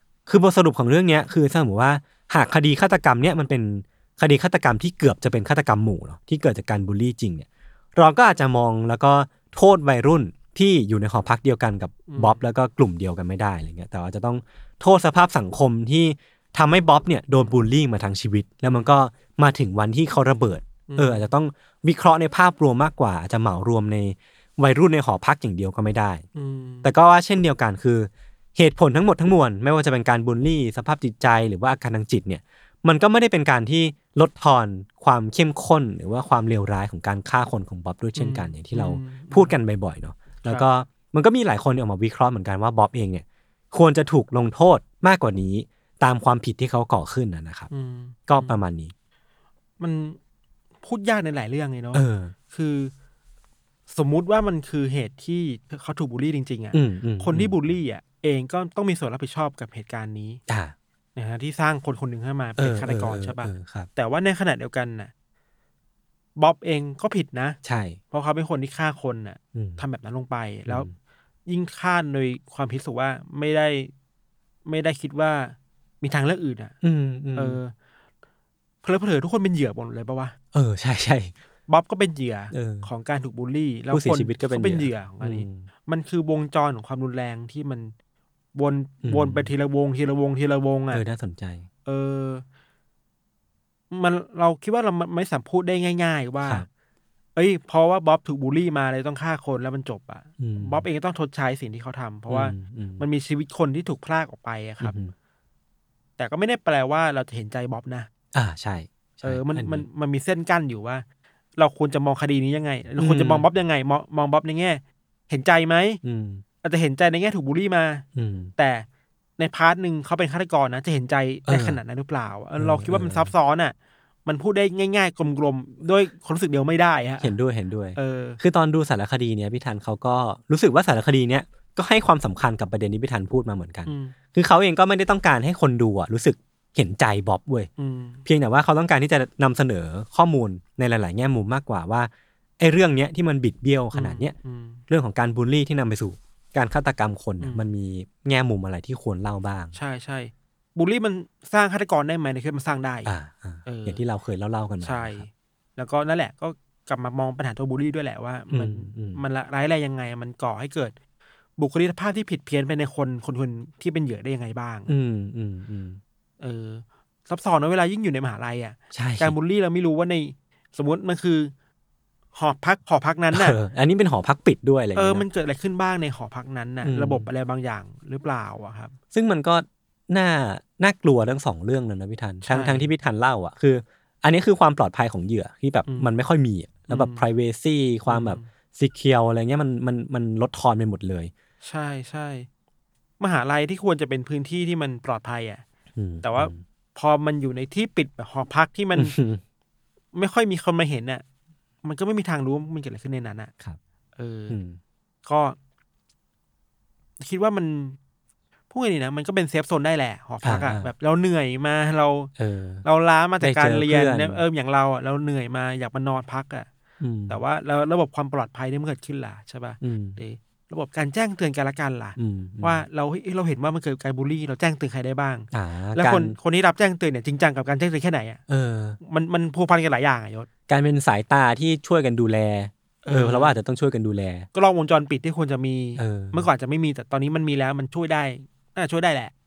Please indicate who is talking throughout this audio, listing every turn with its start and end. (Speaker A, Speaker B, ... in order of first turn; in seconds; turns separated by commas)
Speaker A: 0.3-26.2, Speaker B: 12.1-12.4, Speaker B: 18.7-18.9, Speaker B: 20.9-21.3, Speaker B: 26.4-26.9, Speaker A: 26.8-47.7, Speaker B: 38.2-39.6, Speaker B: 47.7-48.6, Speaker A: 48.3-48.9, Speaker B: 49.8-50.2, Speaker B: 50.8-52.9, Speaker A: 51.9-52.3, Speaker B: 53.9-60.4, Speaker A: 56.7-57.6, Speaker A: 60.5-60.7, Speaker B: 61.2-65.1, Speaker A: 62.6-63.9, Speaker B: 66.4-67.6, Speaker A: 67.6-68.0, Speaker B: 68.1-70.9, Speaker A: 69.5-69.8, Speaker A: 70.7-70.9, Speaker B: 71.5-73.9, Speaker B: 74.7-76.8, Speaker A: 76.8-77.6, Speaker B: 77.3-77.7, Speaker B: 78.8-80.4, Speaker A: 80.5-81.3, Speaker B: 81.7-87.9, Speaker A: 82.5-82.9, Speaker A: 83.9-85.7, Speaker B: 88.5-91.0, Speaker A: 89.0-89.5, Speaker A: 90.9-91.7, Speaker B: 91.8-92.4, Speaker B: 93.9-96.7, Speaker B: 97.4-105.0, Speaker A: 100.4-100.8, Speaker A: 102.3-103.0, Speaker A: 104.8-105.1, Speaker B: 106.2-108.1, Speaker A: 108.3-109.9, Speaker B: 109.2-111.0, Speaker B: 111.6-116.0, Speaker A: 113.0-113.5, Speaker A: 116.0-116.4, Speaker B: 116.6-118.0, Speaker A: 118.2-118.5, Speaker B: 118.6-118.9, Speaker B: 119.4-127.3, Speaker A: 121.5-121.8, Speaker A: 122.6-123.3, Speaker A: 127.2-137.7, Speaker B: 128.0-128.4, Speaker B: 133.9-134.2, Speaker B: 137.8-138.2, Speaker A: 138.3-144.3, Speaker B: 143.9-144.8, Speaker A: 144.9-149.8, Speaker B: 147.4-147.7, Speaker B: 149.7-153.1, Speaker A: 153.1-155.2, Speaker B: 153.7-154.0, Speaker B: 154.8-161.0, Speaker A: 158.5-159.2, Speaker B: 161.6-164.9, Speaker A: 164.9-166.0, Speaker B: 166.4-171.5, Speaker A: 168.9-169.3, Speaker B: 172.3-173.6, Speaker A: 173.3-175.2, Speaker B: 174.9-178.9, Speaker A: 176.8-177.3, Speaker A: 179.1-191.3, Speaker B: 182.4-182.9, Speaker B: 186.9-187.3, Speaker B: 188.1-188.5, Speaker B: 191.6-192.5, Speaker B: 193.2-195.6, Speaker A: 196.0-196.6, Speaker B: 196.2-199.2, Speaker A: 198.9-199.4, Speaker B: 200.1-201.2, Speaker B: 201.8-203.5, Speaker B: 204.2-204.6, Speaker A: 204.5-204.8, Speaker B: 205.2-205.6, Speaker B: 207.2-208.0, Speaker B: 208.7-212.3, Speaker A: 210.4-210.9, Speaker A: 212.4-212.8, Speaker B: 212.8-216.7, Speaker A: 213.4-214.4, Speaker A: 217.0-217.4, Speaker B: 217.3-228.4, Speaker A: 219.8-220.2, Speaker A: 222.2-222.8, Speaker A: 225.5-226.4, Speaker A: 228.5-229.0, Speaker B: 229.0-230.5, Speaker A: 230.7-234.5, Speaker B: 233.0-233.6, Speaker B: 234.5-239.3, Speaker A: 236.0-236.5